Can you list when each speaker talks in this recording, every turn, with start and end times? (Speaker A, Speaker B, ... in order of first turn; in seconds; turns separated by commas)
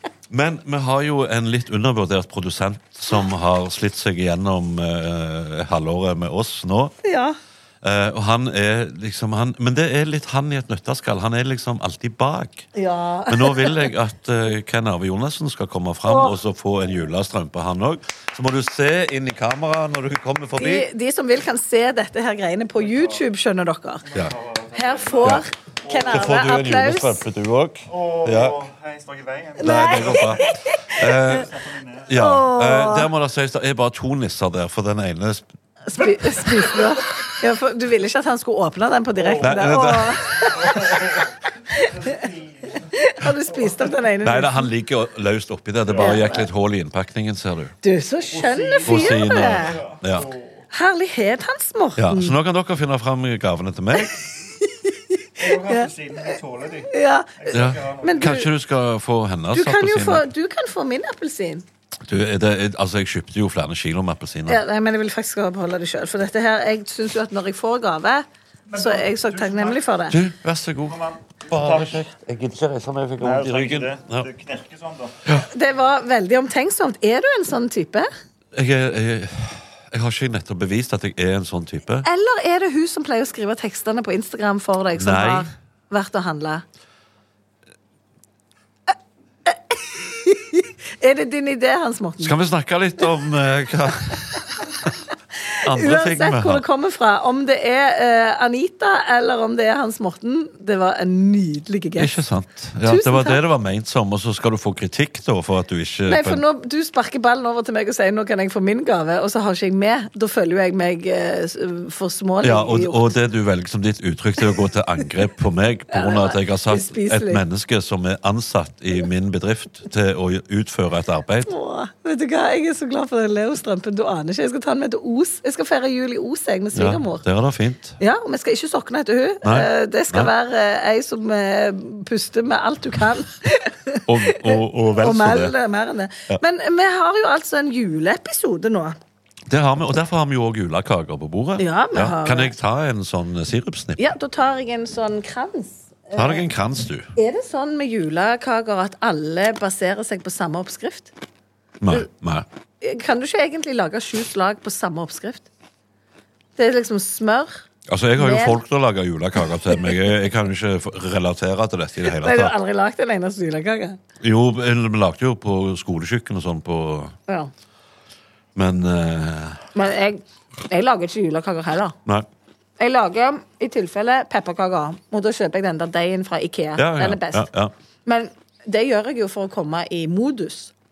Speaker A: 0.3-7.0, Speaker B: 7.0-7.3, Speaker A: 7.8-12.7, Speaker B: 12.8-13.9, Speaker A: 13.3-20.9, Speaker B: 16.1-16.4, Speaker B: 20.6-24.1, Speaker C: 22.8-23.2, Speaker C: 24.1-26.1, Speaker B: 24.7-27.2, Speaker A: 25.2-28.6, Speaker C: 27.9-30.4, Speaker B: 29.6-31.4, Speaker A: 29.6-30.4, Speaker A: 31.0-31.5, Speaker C: 31.1-32.1, Speaker A: 32.1-35.4, Speaker B: 32.1-33.1, Speaker B: 35.9-41.0, Speaker C: 36.4-36.9, Speaker C: 39.1-39.9, Speaker A: 39.4-40.2, Speaker C: 40.4-42.9, Speaker B: 42.9-44.7, Speaker C: 43.5-44.0, Speaker A: 44.2-47.8, Speaker C: 45.8-46.5, Speaker B: 46.0-46.4, Speaker B: 47.8-49.8, Speaker C: 48.3-50.6, Speaker A: 48.8-50.3, Speaker B: 50.7-52.3, Speaker A: 52.0-54.1, Speaker B: 54.6-55.9, Speaker C: 55.4-58.4, Speaker B: 56.9-58.5, Speaker A: 57.5-60.2, Speaker B: 59.5-61.6, Speaker A: 62.0-64.6, Speaker B: 64.5-68.2, Speaker C: 68.7-70.0, Speaker B: 68.8-70.2, Speaker A: 70.1-74.3, Speaker C: 70.9-72.0, Speaker C: 73.2-75.2, Speaker B: 75.5-78.1, Speaker A: 78.5-82.1, Speaker B: 82.0-86.6, Speaker A: 84.9-85.5, Speaker B: 89.5-92.3, Speaker A: 92.2-94.9, Speaker B: 95.5-102.2, Speaker A: 95.6-96.6, Speaker A: 102.0-106.4, Speaker B: 102.8-103.4, Speaker B: 106.1-113.0, Speaker A: 112.4-121.5, Speaker B: 115.9-117.4, Speaker B: 121.5-127.2, Speaker A: 126.7-128.0, Speaker B: 128.0-139.0, Speaker A: 129.4-130.3, Speaker A: 134.1-135.5, Speaker A: 139.5-144.1, Speaker B: 141.6-142.5, Speaker B: 144.0-146.4, Speaker A: 146.1-147.1, Speaker B: 147.2-151.1, Speaker A: 151.8-152.4, Speaker B: 152.8-155.5, Speaker B: 156.6-157.6, Speaker A: 157.9-162.5, Speaker B: 158.2-158.6, Speaker B: 162.0-164.0, Speaker A: 164.2-167.2, Speaker A: 168.5-169.7, Speaker B: 169.7-171.9, Speaker B: 172.8-177.5, Speaker A: 176.8-177.7, Speaker B: 178.0-180.7